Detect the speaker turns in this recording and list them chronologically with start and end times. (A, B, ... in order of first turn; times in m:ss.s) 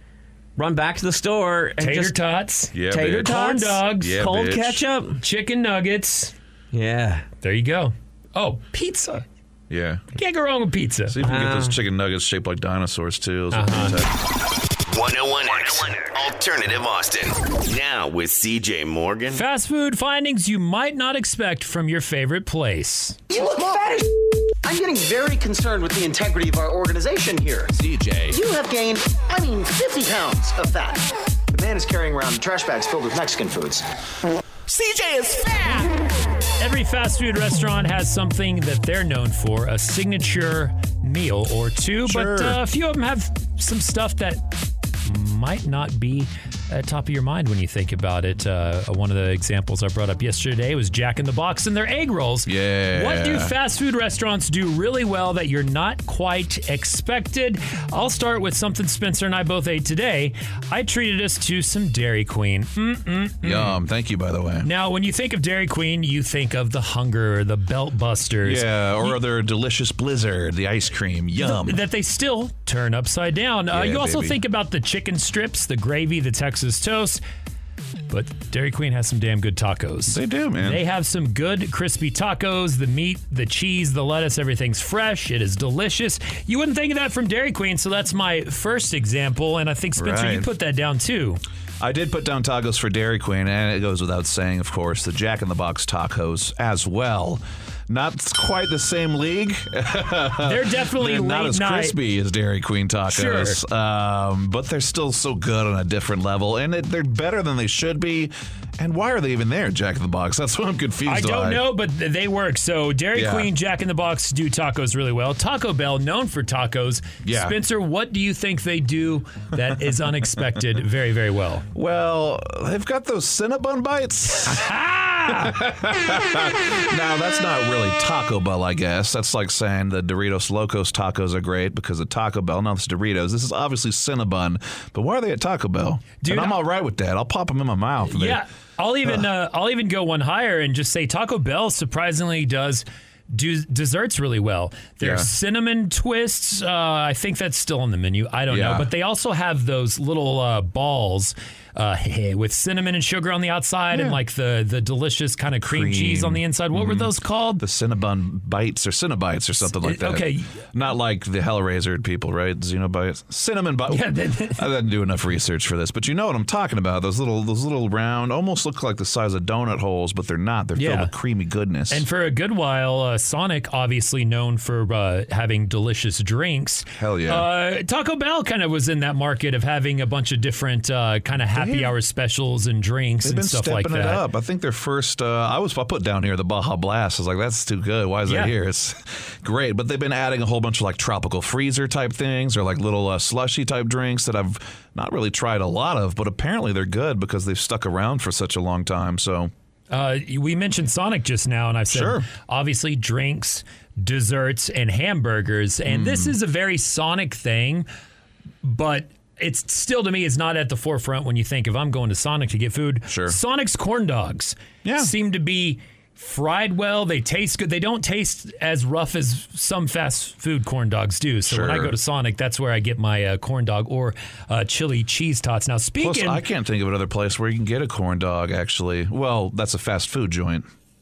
0:00.6-0:02.2 A
0:01.8-0:04.2 B
0:02.7-0:04.8 C
0:02.9-0:05.2 A
0:05.2-0:06.3 B
0:06.7-0:07.3 A
0:07.4-0:09.2 B
0:09.7-0:10.0 C
0:10.2-0:11.2 B
0:11.1-0:14.1 C
0:11.2-0:11.8 A
0:13.5-0:14.0 B
0:14.9-0:19.4 D
0:19.3-0:23.2 B
0:23.3-0:24.1 E
0:24.6-0:27.7 E
0:27.8-0:28.4 C
0:28.3-0:33.8 E
0:34.7-0:35.4 C
0:36.6-0:44.4 B
0:42.1-0:42.6 C
0:45.0-1:03.8 B
0:52.5-0:53.5 C
1:03.4-1:04.7 C
1:04.6-1:09.2 B
1:08.4-1:11.8 C
1:11.4-1:17.2 B
1:13.7-1:14.4 C
1:18.1-1:31.4 B
1:20.1-1:20.8 C
1:30.0-1:30.5 C
1:31.8-1:51.6 C
1:40.4-1:42.0 B
1:43.1-1:43.6 B
1:51.1-2:01.7 B
1:53.1-1:53.5 C
1:57.2-1:57.6 C
2:01.7-2:04.7 C
2:04.5-2:05.6 B
2:05.3-2:18.4 C
2:16.2-2:16.6 B
2:18.1-2:37.6 B
2:25.0-2:25.3 C
2:28.5-2:28.9 C
2:33.9-2:34.2 C
2:35.6-2:52.1 C
2:39.7-2:40.6 B
2:43.9-2:44.7 B
2:50.8-2:51.1 B
2:51.9-3:04.2 B
2:57.0-2:57.5 C
3:01.5-3:02.0 C
3:03.2-3:19.5 C
3:08.3-3:08.5 B
3:19.9-3:27.9 B
3:21.9-3:22.3 C
3:25.9-3:26.4 C
3:28.6-3:46.4 B
3:33.1-3:33.4 C
3:34.8-3:35.1 C
3:41.5-3:42.0 C
3:46.0-3:50.7 C